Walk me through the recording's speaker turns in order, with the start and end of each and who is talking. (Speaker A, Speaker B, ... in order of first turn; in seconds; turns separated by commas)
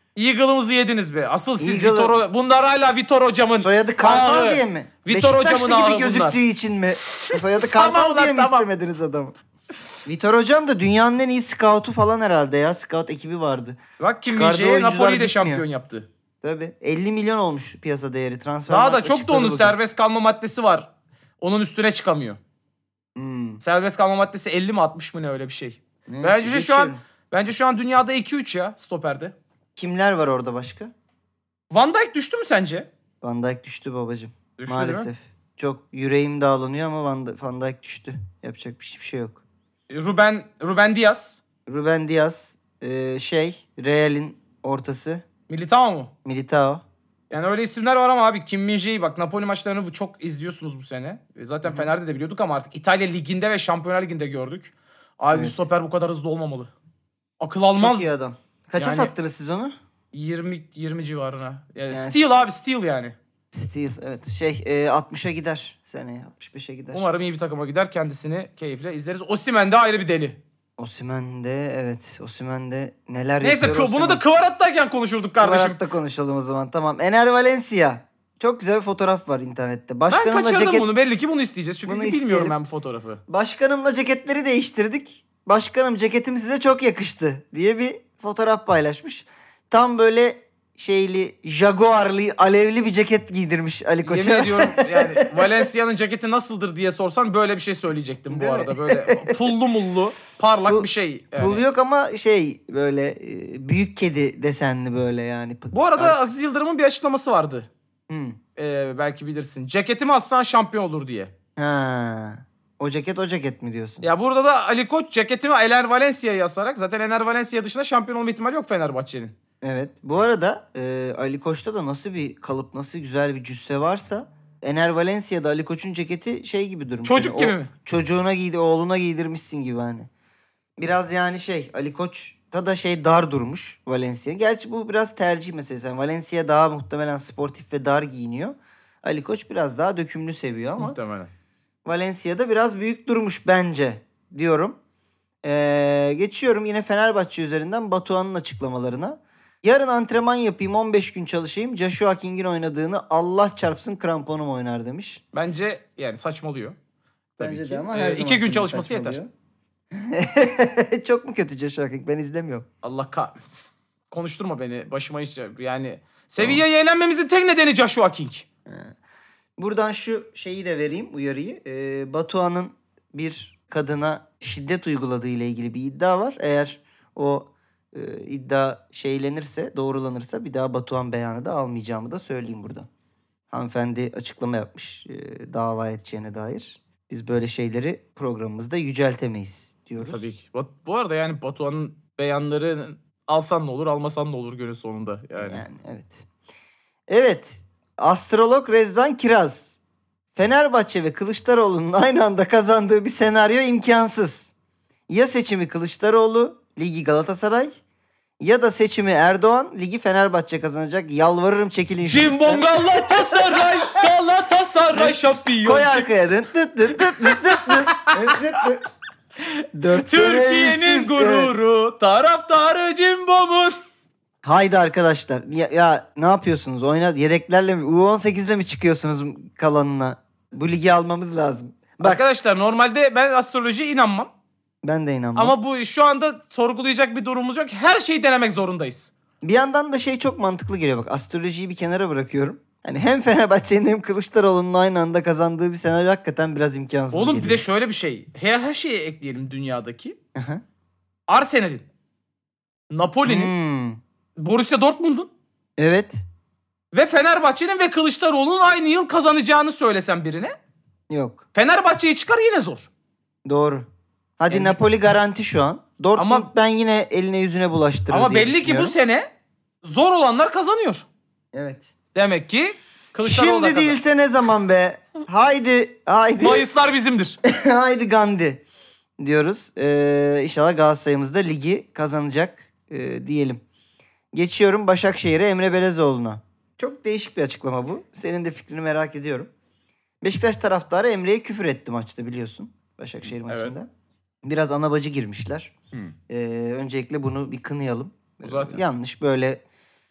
Speaker A: 0.2-6.4, Speaker B: 1.6-2.2, Speaker B: 3.6-9.4, Speaker A: 7.2-8.7, Speaker B: 10.1-15.6, Speaker A: 14.0-16.1, Speaker B: 16.4-19.8, Speaker A: 18.7-20.9, Speaker A: 21.4-22.4, Speaker B: 23.2-23.6, Speaker A: 23.6-29.4, Speaker B: 26.1-27.0, Speaker B: 29.8-30.9, Speaker A: 31.7-32.9, Speaker B: 33.2-39.4, Speaker A: 34.6-35.1, Speaker A: 39.9-41.4, Speaker B: 41.7-45.2, Speaker A: 45.5-46.1, Speaker B: 46.2-46.8, Speaker A: 47.3-56.7, Speaker B: 51.6-51.9, Speaker B: 55.3-55.6, Speaker A: 57.4-58.1, Speaker B: 57.8-59.8, Speaker A: 58.8-59.1, Speaker A: 60.1-63.2, Speaker B: 61.9-62.2, Speaker B: 63.5-67.1, Speaker A: 66.9-70.4, Speaker B: 70.8-74.2, Speaker A: 73.4-75.8, Speaker B: 75.4-80.9, Speaker A: 80.1-83.2, Speaker B: 81.9-82.6, Speaker B: 83.3-95.7, Speaker A: 94.0-101.6, Speaker B: 98.3-99.5, Speaker B: 100.7-106.2, Speaker A: 105.7-107.7, Speaker B: 108.1-108.4, Speaker A: 108.6-111.3, Speaker B: 111.6-114.0, Speaker A: 114.0-119.3, Speaker B: 119.6-130.1, Speaker A: 127.0-127.7, Speaker B: 130.8-141.0, Speaker A: 140.8-141.3, Speaker B: 141.8-144.8, Speaker B: 145.4-155.2, Speaker A: 155.3-156.8, Speaker A: 157.4-159.2, Speaker B: 157.4-159.3, Speaker B: 159.9-162.7, Speaker A: 162.8-163.4, Speaker A: 164.1-168.5, Speaker B: 168.7-168.9, Speaker B: 169.6-182.9, Speaker B: 183.5-190.2, Speaker A: 190.0-195.7, Speaker B: 195.4-196.3, Speaker B: 197.1-199.8, Speaker B: 200.4-204.5, Speaker B: 205.1-207.8, Speaker B: 208.4-214.0, Speaker A: 212.0-216.1, Speaker B: 214.9-218.8, Speaker A: 217.1-218.3, Speaker A: 219.4-223.8, Speaker B: 219.7-221.5, Speaker B: 224.4-232.2, Speaker A: 232.0-234.3, Speaker B: 234.8-235.6, Speaker A: 235.4-239.1, Speaker B: 239.4-247.6, Speaker A: 247.1-250.2, Speaker B: 250.3-250.6, Speaker A: 251.3-251.8, Speaker A: 252.9-253.5, Speaker B: 253.3-254.0, Speaker A: 254.4-255.3, Speaker B: 255.8-256.2, Speaker A: 256.9-260.6, Speaker B: 261.1-261.4, Speaker A: 261.5-262.9, Speaker B: 263.5-263.9, Speaker B: 264.4-269.0, Speaker A: 264.5-264.8, Speaker A: 266.2-266.5, Speaker A: 268.1-269.3, Speaker A: 269.8-271.1, Speaker B: 271.5-271.9, Speaker A: 272.1-274.0, Speaker B: 273.2-276.7, Speaker A: 276.4-277.4, Speaker B: 277.4-278.6, Speaker B: 279.2-283.6, Speaker B: 284.3-289.5, Speaker B: 290.2-293.9, Speaker A: 293.5-293.8, Speaker B: 294.4-295.7, Speaker B: 296.3-299.6, Speaker A: 298.4-298.8